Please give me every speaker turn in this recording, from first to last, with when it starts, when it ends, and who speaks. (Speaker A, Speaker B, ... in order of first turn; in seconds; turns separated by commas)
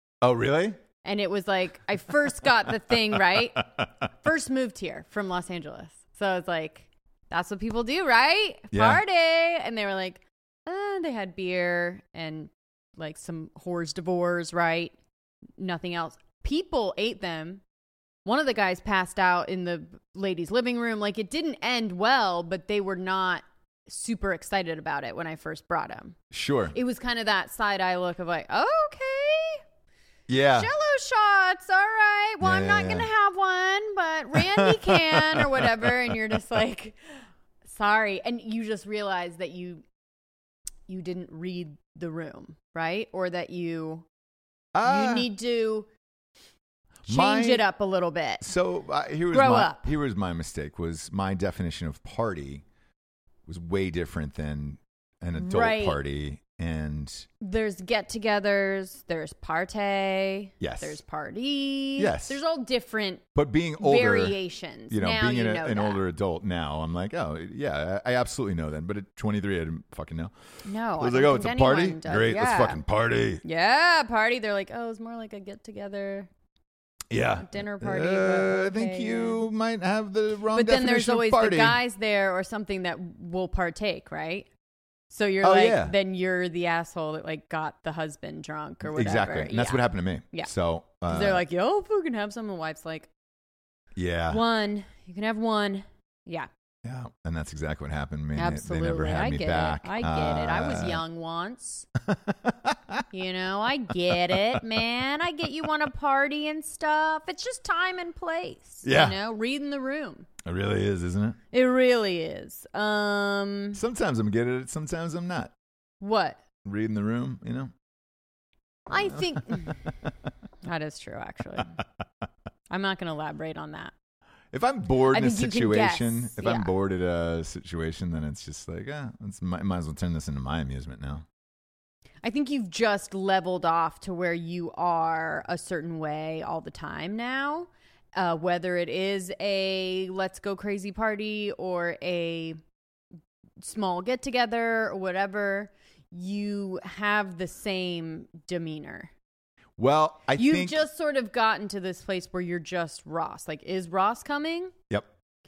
Speaker A: 0.2-0.8, Speaker B: 1.0-15.0, Speaker A: 8.7-9.0, Speaker B: 15.6-17.6, Speaker B: 18.2-26.2, Speaker A: 26.3-26.8, Speaker B: 26.7-29.6, Speaker A: 30.3-30.7, Speaker B: 30.5-39.9, Speaker A: 32.4-33.1, Speaker A: 34.4-35.9, Speaker B: 40.9-44.1, Speaker A: 44.8-45.3, Speaker B: 44.9-45.9, Speaker A: 47.1-47.6, Speaker B: 47.1-48.5, Speaker A: 48.4-52.6, Speaker B: 49.3-49.9, Speaker A: 53.5-57.3, Speaker B: 55.4-56.0, Speaker B: 57.4-63.3, Speaker A: 60.6-61.0, Speaker A: 62.0-62.4, Speaker A: 63.4-64.4, Speaker B: 63.8-66.0, Speaker A: 64.9-70.3, Speaker B: 70.6-72.8, Speaker A: 71.0-73.4, Speaker B: 73.4-76.3, Speaker A: 77.1-81.8, Speaker B: 77.4-79.4, Speaker B: 80.5-84.5, Speaker B: 85.1-90.5, Speaker A: 85.4-86.0, Speaker A: 88.8-91.4, Speaker B: 91.1-93.1, Speaker A: 94.0-94.4, Speaker B: 94.3-96.5, Speaker A: 96.8-101.0, Speaker B: 98.3-101.9, Speaker A: 102.1-103.0, Speaker B: 103.1-110.3, Speaker A: 104.2-104.6, Speaker A: 108.8-109.2, Speaker A: 110.4-111.4, Speaker B: 111.5-113.8, Speaker A: 113.7-115.5, Speaker B: 116.0-116.4, Speaker A: 116.7-117.7, Speaker B: 118.9-120.0, Speaker A: 119.0-119.2, Speaker B: 120.6-121.8, Speaker B: 122.7-123.9, Speaker A: 124.5-131.2, Speaker B: 125.0-126.7, Speaker B: 132.2-142.6, Speaker B: 143.6-149.1, Speaker A: 149.8-150.8, Speaker B: 150.4-154.7